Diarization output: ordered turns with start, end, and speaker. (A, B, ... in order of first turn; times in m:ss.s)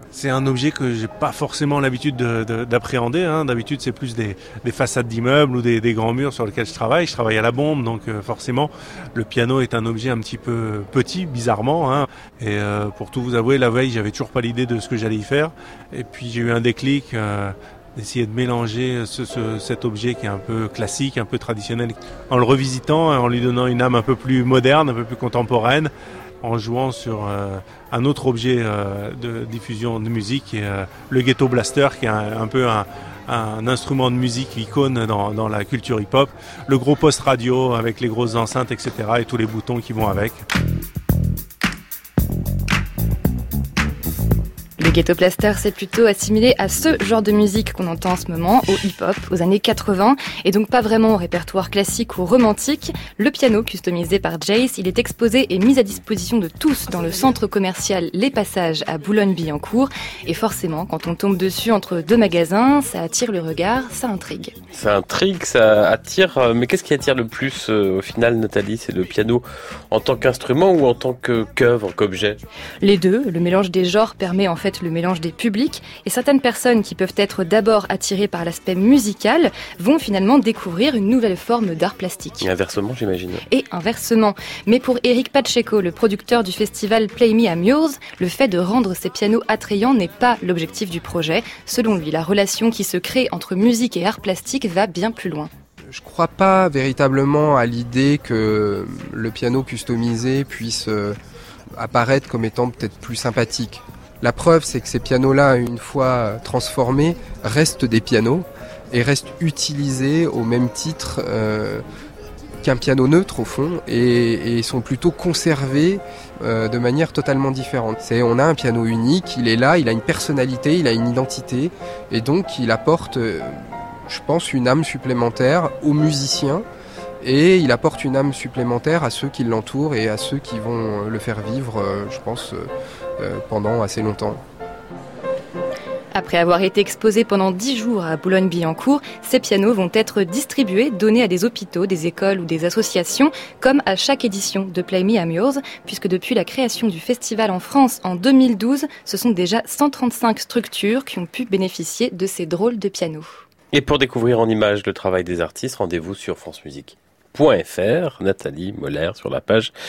0:00.1-0:25.9 A
0:26.4-0:40.4 A
0:44.8-1:04.6 B
1:04.7-1:12.4 C
1:12.8-1:22.5 B
1:22.4-1:23.4 C
1:23.5-1:35.5 B
1:35.9-1:41.2 D
1:41.8-1:51.8 D
1:52.6-2:06.6 D
2:07.2-2:12.7 D
2:13.2-2:14.4 D
2:16.1-2:33.4 B
2:33.7-2:39.7 C